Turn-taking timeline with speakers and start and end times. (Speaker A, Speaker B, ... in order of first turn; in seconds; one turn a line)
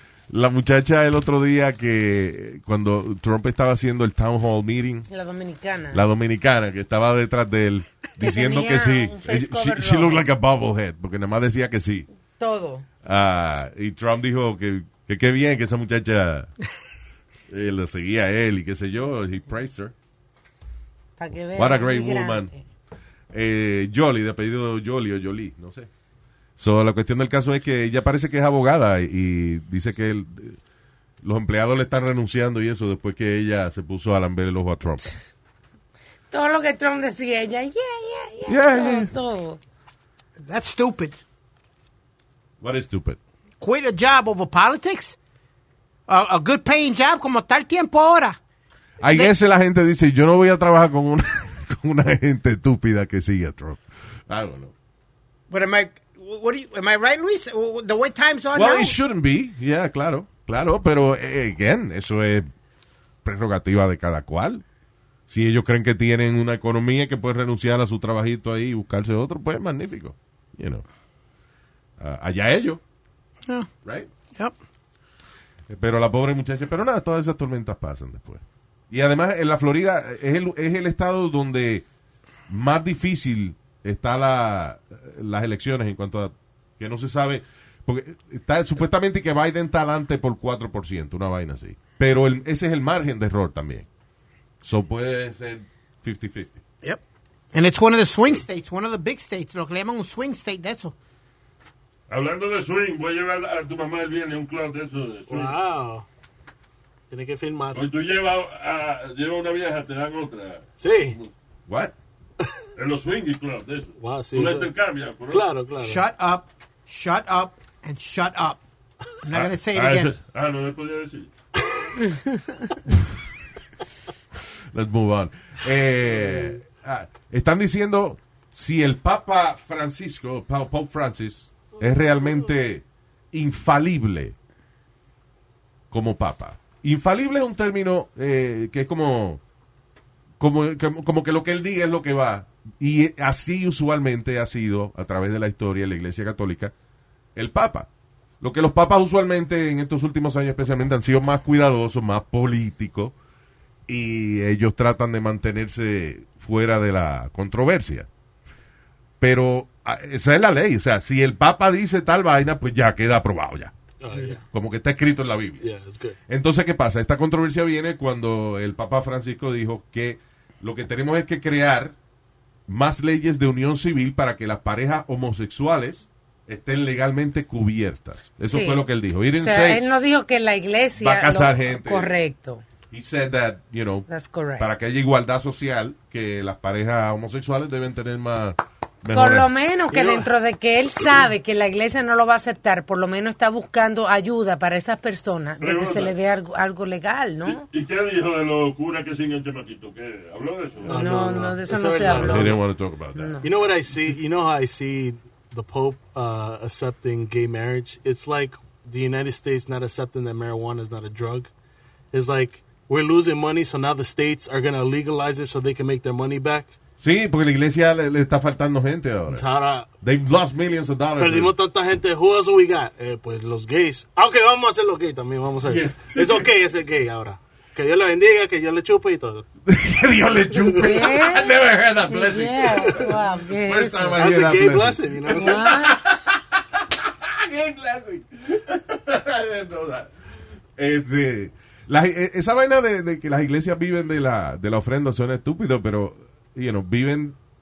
Speaker A: 0.3-5.1
Speaker B: 5.1-6.0
Speaker A: 5.9-12.1
Speaker B: 8.2-10.2
Speaker B: 12.4-12.8
Speaker A: 13.0-16.5
Speaker A: 17.5-19.9
Speaker B: 21.2-22.6
Speaker A: 21.6-22.5
Speaker A: 23.3-25.9
Speaker A: 26.6-30.6
Speaker A: 31.2-35.1
Speaker B: 36.3-39.6
Speaker A: 38.5-39.1
Speaker C: 40.4-41.2
Speaker A: 42.6-43.2
Speaker C: 43.6-45.1
Speaker C: 46.1-48.4
Speaker A: 49.0-54.7
Speaker C: 49.0-49.3
Speaker C: 55.5-58.9
Speaker A: 58.5-62.5
Speaker A: 63.2-64.6
Speaker A: 65.3-70.8
Speaker A: 72.0-72.8
Speaker A: 73.8-74.1
Speaker A: 75.7-81.8
Speaker A: 82.5-93.9
Speaker A: 94.6-96.6
Speaker C: 97.5-100.9
Speaker D: 102.1-105.5
Speaker E: 105.3-106.0
Speaker E: 107.1-107.8
Speaker D: 107.7-111.3
Speaker E: 110.8-111.2
Speaker A: 111.7-111.9
Speaker D: 112.8-115.5
Speaker E: 114.0-114.7
Speaker E: 115.3-116.0
Speaker C: 115.8-118.6
Speaker C: 119.2-120.1
Speaker D: 119.3-121.3
Speaker A: 124.7-134.3
Speaker A: 135.9-139.4
Speaker A: 140.4-146.7
Speaker A: 147.3-147.9
Speaker A: 148.4-153.1
Speaker A: 153.9-158.1
Speaker A: 159.2-163.7
Speaker E: 164.0-164.4
Speaker A: 164.5-165.6
Speaker E: 165.6-166.2
Speaker A: 166.3-171.9
Speaker A: 172.7-179.8
Speaker B: 178.4-178.8
Speaker B: 179.3-182.6
Speaker A: 181.0-182.1
Speaker A: 182.9-189.5
Speaker B: 184.1-184.7
Speaker B: 189.1-197.7
Speaker E: 189.9-190.3
Speaker D: 195.6-196.1
Speaker D: 197.5-201.2
Speaker E: 200.8-202.6
Speaker B: 200.9-202.6
Speaker A: 202.1-203.4
Speaker B: 203.1-203.5
Speaker E: 203.4-211.5
Speaker E: 212.1-216.7
Speaker A: 217.0-219.4
Speaker E: 219.3-219.9
Speaker A: 220.0-221.5
Speaker E: 221.2-229.4
Speaker A: 225.7-226.4
Speaker A: 229.7-240.1
Speaker B: 230.8-231.5
Speaker B: 232.1-234.2
Speaker E: 234.2-235.7
Speaker B: 235.3-236.2
Speaker A: 240.8-247.3